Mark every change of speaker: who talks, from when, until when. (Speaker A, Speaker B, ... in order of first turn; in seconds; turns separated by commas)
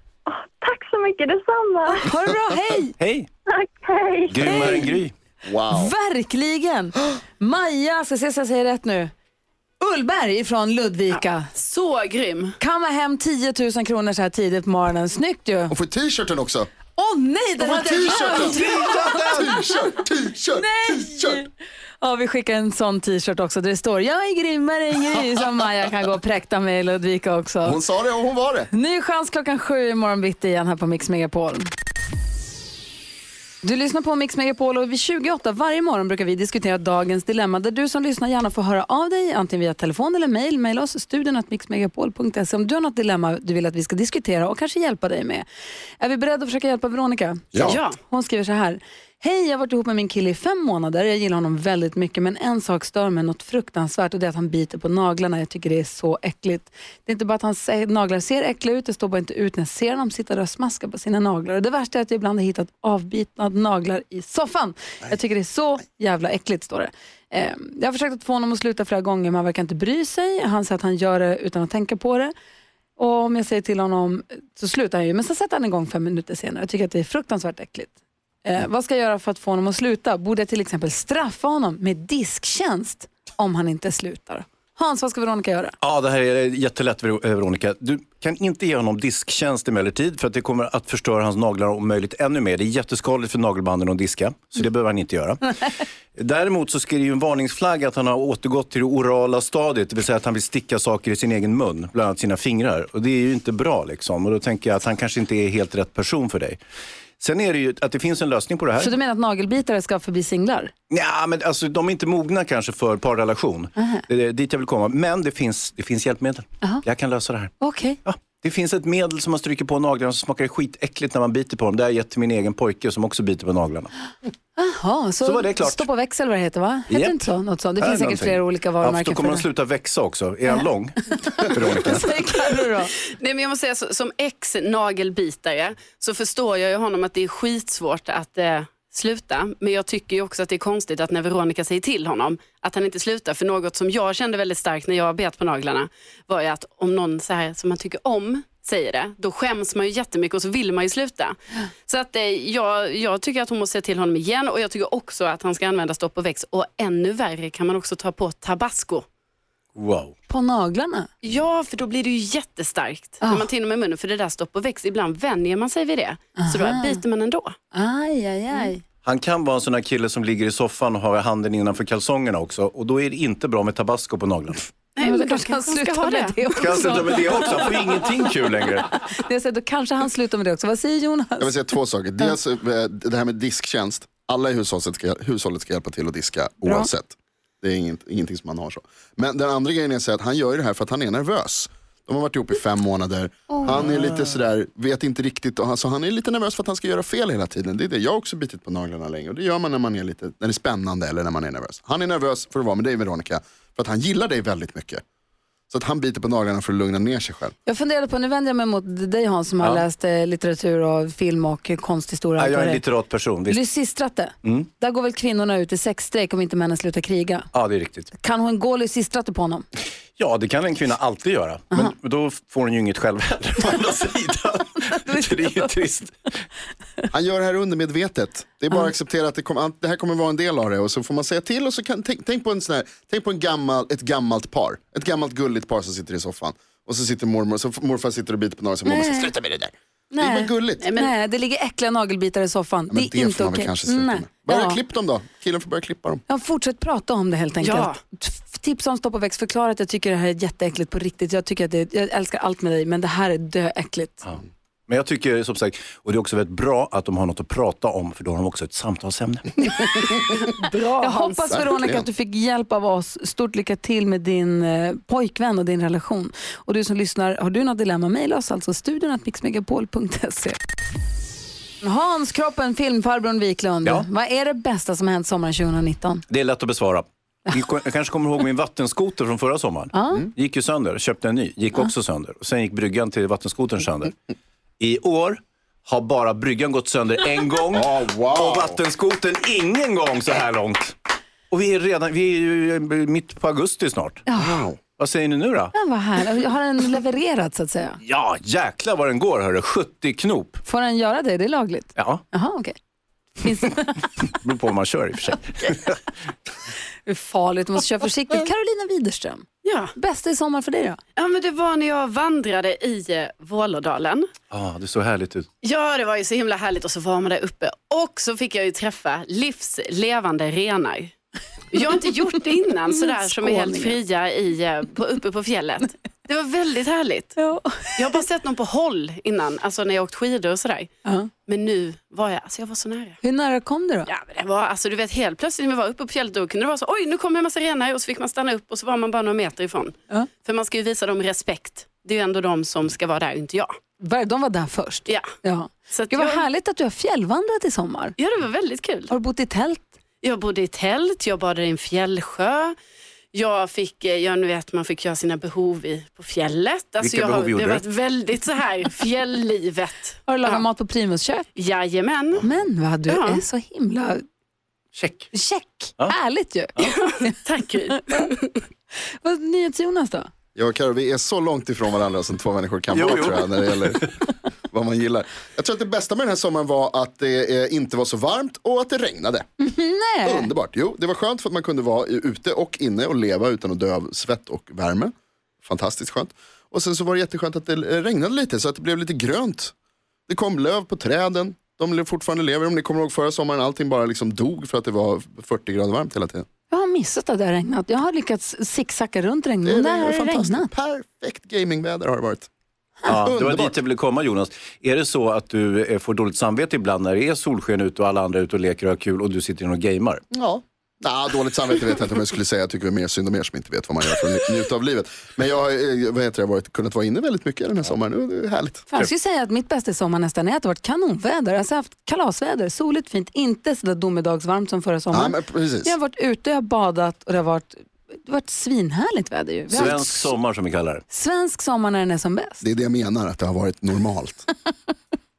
Speaker A: 0.2-2.1, Speaker B: 1.9-3.0, Speaker C: 3.0-3.3, Speaker A: 3.5-5.0, Speaker C: 4.3-5.1, Speaker B: 4.4-4.9, Speaker D: 5.4-5.9, Speaker B: 5.7-9.1, Speaker B: 9.8-11.5, Speaker E: 11.1-12.6, Speaker B: 12.6-15.7, Speaker D: 15.7-16.7, Speaker B: 16.9-19.3, Speaker D: 17.6-21.4, Speaker C: 18.4-19.5, Speaker B: 20.5-21.5, Speaker B: 22.0-27.8, Speaker D: 27.6-28.7, Speaker B: 28.7-31.7, Speaker B: 33.6-45.5, Speaker B: 46.0-72.3, Speaker E: 47.6-48.0, Speaker B: 73.0-85.8, Speaker C: 85.8-106.6, Speaker C: 107.2-108.9, Speaker B: 108.8-110.7, Speaker C: 110.9-117.5, Speaker B: 113.8-114.0, Speaker B: 117.6-118.0, Speaker C: 118.0-123.9, Speaker B: 124.5-129.5, Speaker C: 125.2-125.9, Speaker C: 126.9-132.1, Speaker B: 131.1-132.9, Speaker E: 133.2-159.0, Speaker C: 159.8-160.1, Speaker B: 160.3-161.1, Speaker E: 161.2-167.5, Speaker B: 163.2-163.5, Speaker B: 166.4-167.0, Speaker B: 167.7-168.8, Speaker C: 169.0-174.7, Speaker E: 174.9-177.1, Speaker B: 175.0-177.6, Speaker C: 176.6-178.8, Speaker B: 179.1-181.5, Speaker D: 181.4-205.0, Speaker B: 186.6-186.9, Speaker D: 205.7-207.5, Speaker B: 207.6-212.8, Speaker C: 212.4-213.7, Speaker B: 213.5-217.5, Speaker C: 214.4-214.7, Speaker C: 217.5-218.1, Speaker B: 218.1-219.7, Speaker C: 220.2-226.1, Speaker B: 224.9-225.8, Speaker D: 227.1-240.8, Speaker B: 238.8-239.3, Speaker B: 240.1-244.8, Speaker E: 240.8-241.1, Speaker D: 242.9-246.2, Speaker B: 246.3-254.2, Speaker E: 247.6-247.9, Speaker C: 254.2-259.6, Speaker B: 259.7-260.0, Speaker E: 260.4-261.6, Speaker B: 261.0-270.6, Speaker D: 261.5-262.0, Speaker B: 271.8-276.2, Speaker C: 276.3-284.1, Speaker B: 279.9-280.3, Speaker C: 284.8-290.9, Speaker D: 287.7-288.8, Speaker C: 291.5-294.3, Speaker B: 294.3-294.6, Speaker D: 294.4-294.8, Speaker C: 294.8-295.7, Speaker B: 295.7-298.0, Speaker C: 298.0-300.6, Speaker B: 300.6-302.7, Speaker C: 301.9-302.2, Speaker B: 303.4-304.1, Speaker C: 304.2-306.0, Speaker B: 307.1-311.0, Speaker E: 309.6-309.9, Speaker E: 311.2-314.2, Speaker C: 314.5-315.5, Speaker E: 315.6-321.1, Speaker E: 321.7-327.3, Speaker B: 322.9-324.0, Speaker B: 327.4-328.1, Speaker E: 328.0-330.9, Speaker B: 331.0-331.3, Speaker E: 331.5-333.2, Speaker B: 333.2-334.1, Speaker E: 334.1-343.7, Speaker B: 344.0-348.1, Speaker E: 345.9-346.4, Speaker E: 348.2-349.1, Speaker B: 349.1-349.9, Speaker E: 350.2-352.8, Speaker E: 353.3-360.6, Speaker C: 357.0-357.8, Speaker B: 360.3-361.5, Speaker E: 361.6-362.4, Speaker B: 362.4-364.2, Speaker E: 363.1-363.4, Speaker C: 364.9-365.3, Speaker B: 365.3-367.4, Speaker E: 366.8-368.6, Speaker B: 367.9-368.2, Speaker B: 369.2-370.3, Speaker D: 370.5-374.1, Speaker C: 372.9-374.0, Speaker D: 374.7-379.4, Speaker B: 379.6-380.5, Speaker D: 380.2-385.1, Speaker D: 385.6-389.7, Speaker D: 390.3-396.4, Speaker B: 396.7-400.7, Speaker D: 399.6-402.5, Speaker C: 403.0-410.2, Speaker D: 403.1-403.8, Speaker D: 410.3-418.9, Speaker B: 418.9-430.3, Speaker D: 425.1-425.9, Speaker C: 429.7-431.0, Speaker B: 431.1-432.6, Speaker D: 432.6-434.4